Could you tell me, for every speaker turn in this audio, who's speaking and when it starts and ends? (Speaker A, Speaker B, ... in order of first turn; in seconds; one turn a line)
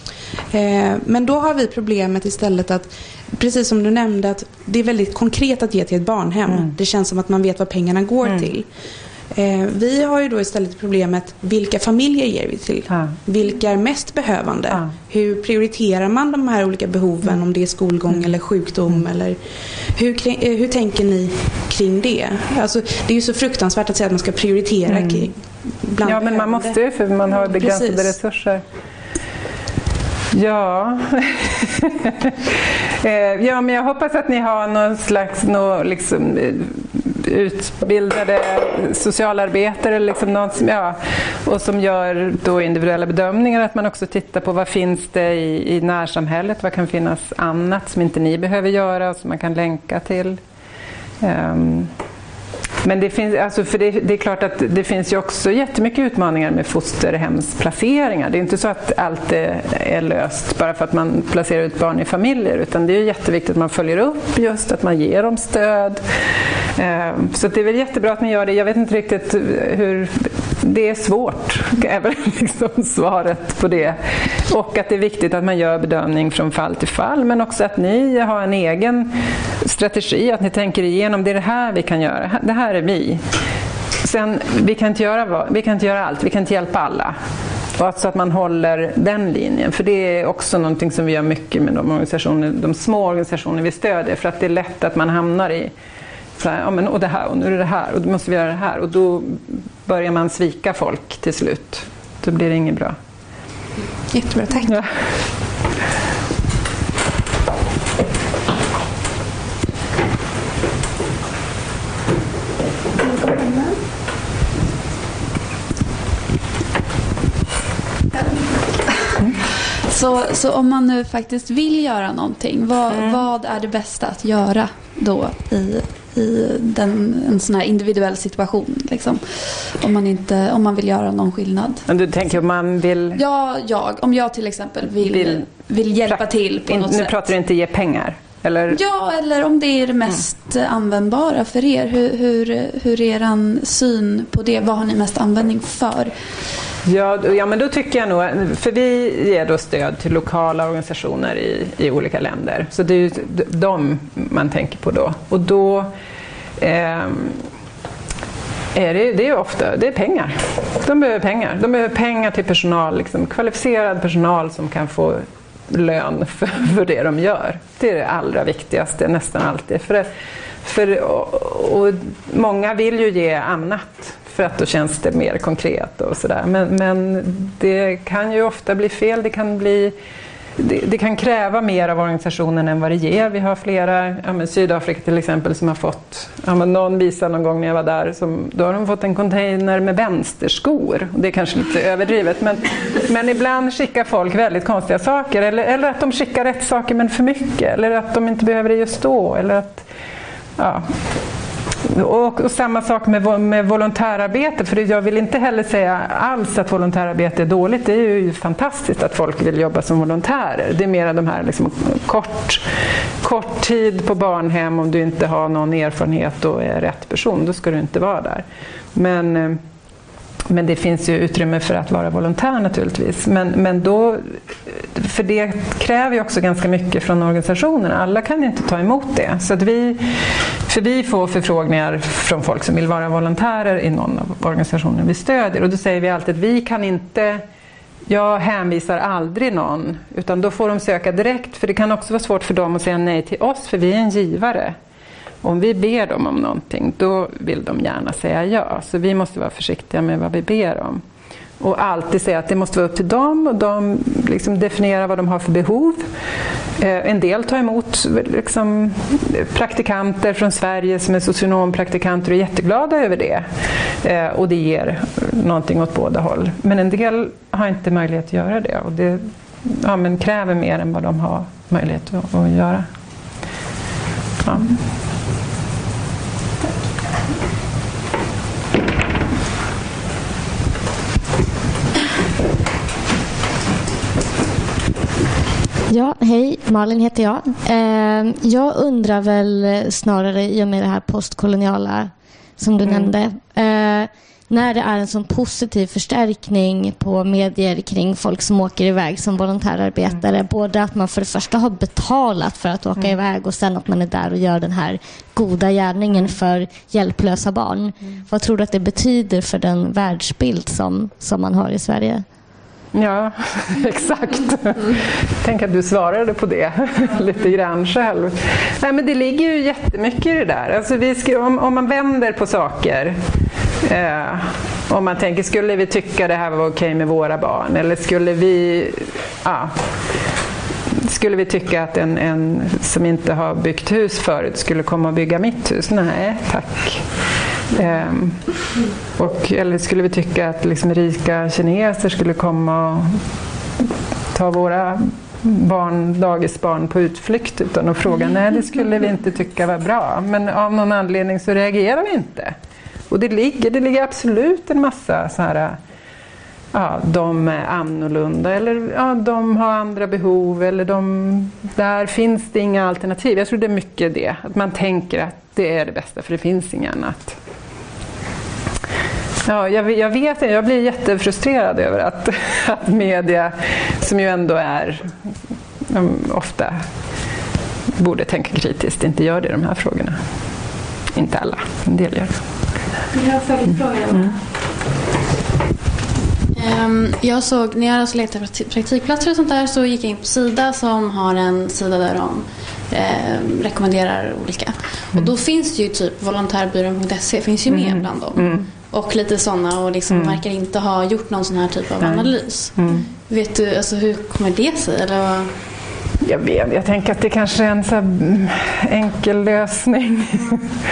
Speaker A: 0.5-8.7
Speaker A: 9.3-19.4
Speaker B: 12.9-13.1
Speaker A: 19.9-26.8
Speaker B: 24.9-25.3
Speaker B: 26.0-28.6
Speaker A: 27.3-28.1
Speaker B: 30.3-50.4
Speaker B: 51.2-51.9
Speaker B: 52.8-66.0
Speaker B: 66.8-83.2
Speaker B: 84.0-87.1
Speaker B: 87.8-95.7
Speaker B: 96.4-103.0
Speaker A: 104.1-104.7
Speaker B: 104.7-104.9
Speaker C: 119.9-131.8
Speaker B: 122.9-123.2
Speaker B: 131.9-133.2
Speaker C: 133.1-137.2
Speaker B: 135.1-135.4
Speaker B: 136.1-138.8
Speaker C: 138.7-146.1
Speaker B: 146.8-155.9
Speaker B: 156.6-157.4
Speaker B: 158.7-170.1
Speaker B: 170.6-179.9
Speaker B: 180.6-199.8
Speaker B: 200.6-200.8
Speaker B: 201.8-212.6
Speaker B: 213.2-219.6
Speaker B: 220.5-230.0
Speaker B: 230.7-237.4
Speaker B: 238.1-244.8
Speaker B: 245.4-251.0
Speaker B: 251.6-256.1
Speaker B: 256.8-263.4
Speaker B: 264.0-272.9
Speaker B: 274.4-274.7
Speaker D: 285.9-312.2
Speaker B: 292.8-293.1
Speaker B: 306.1-306.3
Speaker B: 312.9-323.2
Speaker B: 323.8-329.7
Speaker B: 331.0-337.1
Speaker B: 337.7-338.5
Speaker B: 339.1-343.2
Speaker B: 344.3-352.6
Speaker B: 353.1-355.8
Speaker B: 356.7-367.4
Speaker B: 369.4-375.1
Speaker B: 375.9-376.8
Speaker B: 378.0-380.2
Speaker B: 381.1-382.4
Speaker E: 383.1-384.4
Speaker E: 386.5-405.5
Speaker B: 397.7-398.7
Speaker B: 400.1-400.4
Speaker B: 402.0-403.0
Speaker B: 406.2-410.7